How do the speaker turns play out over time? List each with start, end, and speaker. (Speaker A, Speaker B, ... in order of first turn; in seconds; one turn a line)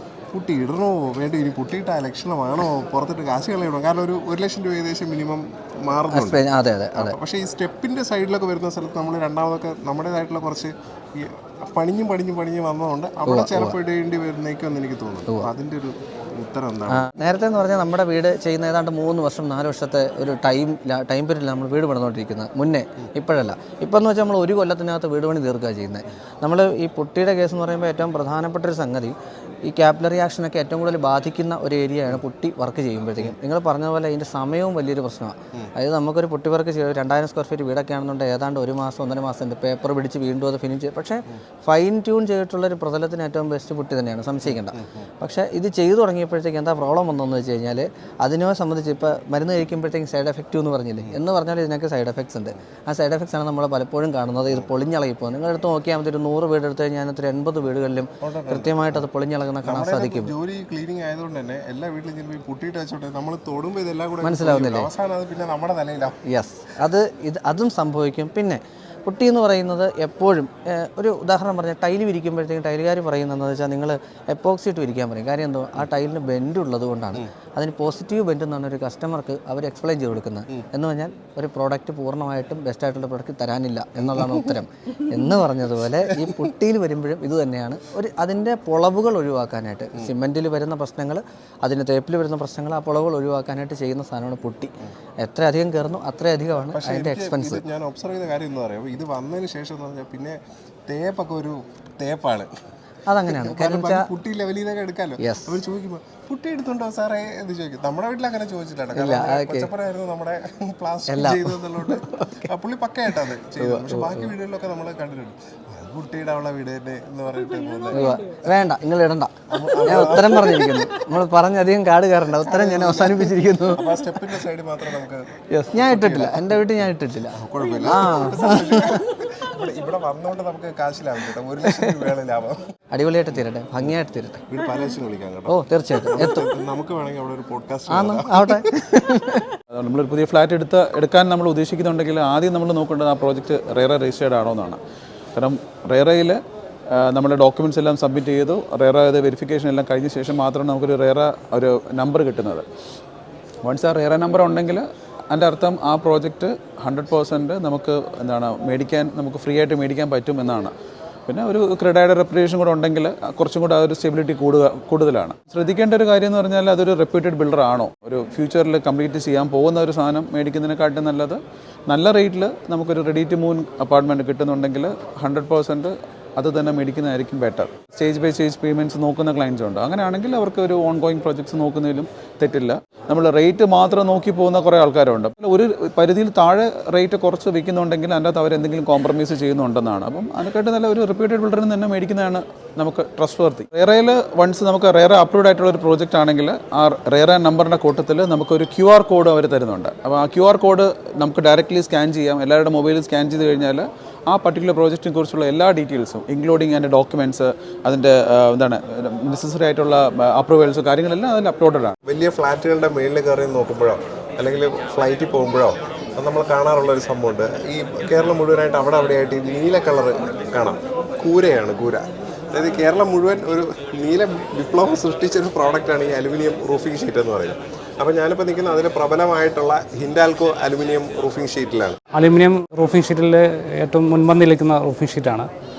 Speaker A: 0.3-6.4
Speaker B: 6.1-7.2
Speaker A: 7.0-17.1
Speaker B: 13.3-13.8
Speaker B: 16.9-29.1
Speaker B: 29.7-60.3
Speaker A: 58.2-59.0
Speaker A: 59.6-66.2
Speaker B: 64.2-64.9
Speaker B: 66.3-97.6
Speaker A: 96.7-102.5
Speaker B: 103.1-104.1
Speaker A: 103.3-118.0
Speaker B: 105.2-105.6
Speaker B: 108.9-109.7
Speaker B: 111.1-112.5
Speaker B: 113.6-114.3
Speaker B: 117.9-124.0
Speaker A: 119.5-120.9
Speaker A: 122.5-126.5
Speaker B: 125.5-129.0
Speaker A: 127.4-132.6
Speaker B: 132.9-134.4
Speaker A: 134.5-138.5
Speaker B: 135.5-136.5
Speaker B: 137.9-139.4
Speaker C: 139.7-144.8
Speaker C: 145.3-146.4
Speaker C: 146.9-152.7
Speaker C: 153.6-160.7
Speaker C: 161.3-211.9
Speaker A: 212.1-232.0
Speaker D: 232.2-235.5